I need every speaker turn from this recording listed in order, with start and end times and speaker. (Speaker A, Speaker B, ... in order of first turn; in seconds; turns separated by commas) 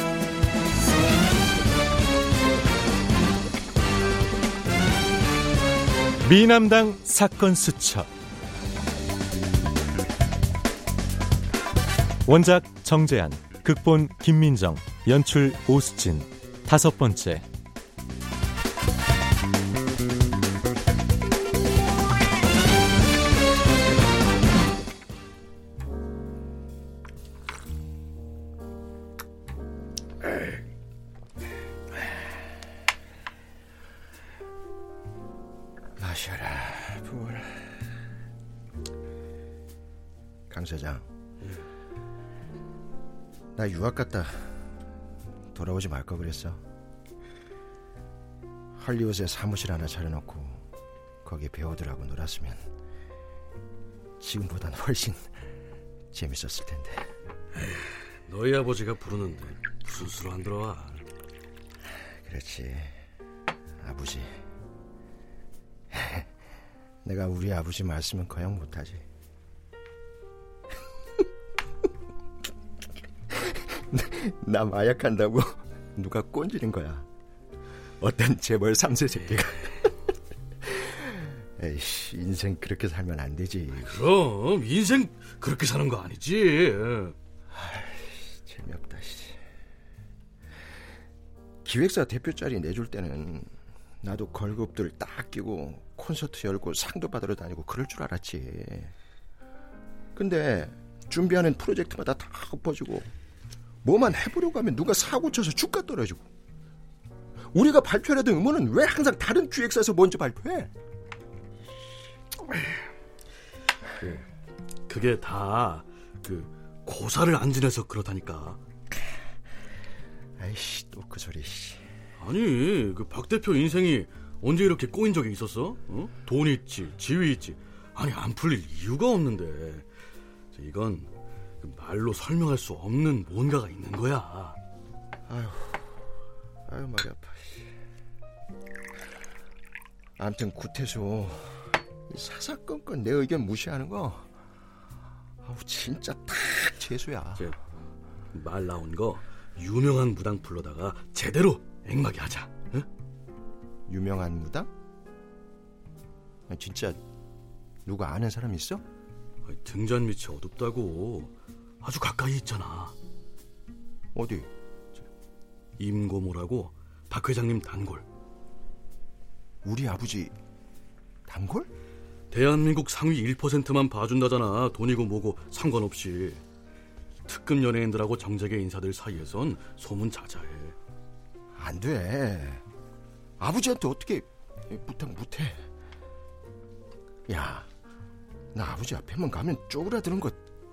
Speaker A: 6.2-8.1, Speaker A: 12.2-17.4, Speaker B: 36.0-37.5, Speaker B: 40.5-41.1, Speaker B: 43.5-44.6, Speaker B: 45.5-46.6, Speaker B: 48.8-50.6, Speaker B: 51.2-52.6, Speaker B: 54.2-55.3, Speaker B: 56.1-57.1, Speaker C: 57.6-61.0, Speaker B: 62.2-63.0, Speaker B: 63.8-64.3, Speaker B: 65.9-66.3, Speaker B: 67.0-69.0, Speaker B: 73.4-77.0, Speaker B: 78.0-79.9, Speaker B: 80.7-83.9, Speaker C: 83.7-87.1, Speaker B: 87.5-89.4, Speaker B: 91.6-93.5, Speaker B: 94.0-98.9, Speaker B: 100.2-103.1, Speaker B: 103.8-106.2, Speaker B: 107.5-110.7, Speaker C: 114.0-114.2, Speaker C: 114.9-118.6, Speaker B: 120.4-121.8, Speaker C: 122.2-129.8, Speaker C: 130.5-131.1, Speaker C: 131.6-134.6, Speaker B: 135.3-135.9, Speaker B: 136.7-137.7, Speaker B: 140.2-144.3, Speaker B: 145.4-147.5, Speaker C: 148.3-152.8, Speaker B: 153.9-154.7, Speaker B: 156.5-157.0, Speaker B: 157.8-158.8, Speaker C: 159.5-162.9, Speaker B: 164.1-164.5, Speaker C: 165.8-168.0, Speaker B: 169.6-170.3, Speaker B: 171.3-171.7, Speaker C: 172.3-176.4, Speaker C: 177.3-180.7, Speaker B: 181.6-182.6, Speaker B: 183.4-185.6, Speaker B: 187.3-187.7, Speaker B: 188.5-190.4